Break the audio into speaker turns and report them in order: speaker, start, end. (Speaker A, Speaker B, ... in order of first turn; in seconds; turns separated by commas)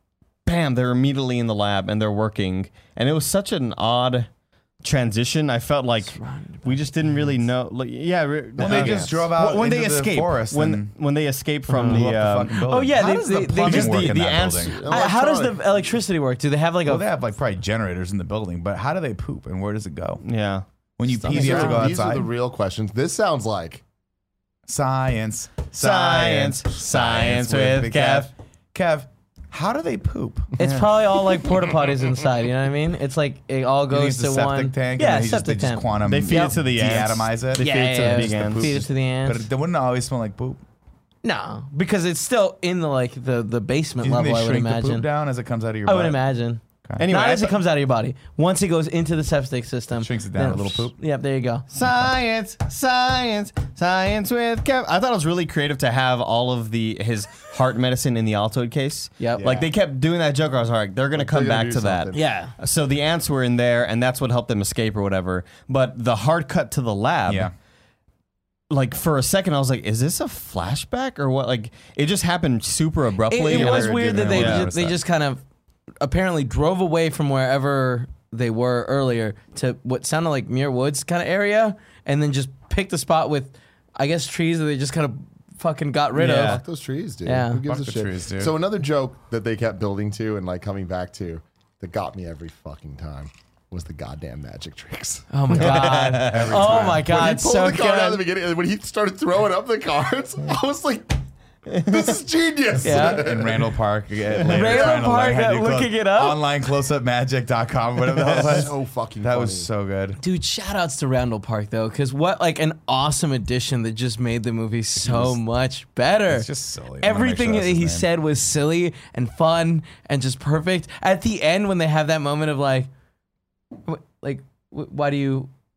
Speaker A: 0.5-4.3, Speaker A: 4.8-14.9, Speaker B: 6.1-6.8, Speaker C: 8.6-10.9, Speaker D: 8.7-9.1, Speaker B: 8.7-8.9, Speaker C: 11.7-14.8, Speaker B: 12.6-14.2, Speaker D: 14.6-15.9, Speaker B: 14.9-17.0, Speaker C: 16.9-20.2, Speaker A: 20.2-21.8, Speaker C: 21.0-22.3, Speaker D: 21.3-23.8, Speaker B: 21.4-21.8, Speaker C: 24.7-30.5, Speaker A: 25.8-28.3, Speaker B: 30.6-36.6, Speaker A: 30.6-30.9, Speaker C: 33.9-40.6, Speaker A: 36.0-38.8, Speaker B: 37.6-39.5, Speaker B: 41.2-45.1, Speaker C: 44.0-46.2, Speaker B: 45.9-51.6, Speaker A: 47.0-47.6, Speaker C: 50.0-50.9, Speaker A: 51.7-67.5, Speaker C: 51.8-52.1, Speaker B: 59.2-59.5, Speaker D: 59.4-59.7, Speaker D: 61.1-62.2, Speaker B: 62.1-62.5, Speaker C: 67.3-67.5, Speaker A: 68.7-74.7, Speaker B: 73.3-75.4, Speaker C: 73.5-75.0, Speaker B: 76.0-86.6, Speaker A: 86.2-86.6, Speaker D: 86.3-95.7, Speaker B: 87.2-87.6, Speaker C: 87.7-88.5, Speaker B: 95.3-98.2, Speaker A: 95.5-96.7, Speaker C: 95.6-97.1, Speaker D: 96.7-101.2, Speaker A: 101.7-102.1, Speaker D: 101.8-103.7, Speaker B: 102.8-103.2, Speaker C: 102.9-110.2, Speaker B: 104.5-106.4, Speaker D: 104.6-105.0, Speaker D: 108.1-109.7, Speaker B: 110.2-116.5, Speaker C: 115.0-115.4, Speaker C: 116.3-118.1, Speaker B: 117.0-122.9, Speaker B: 123.9-125.5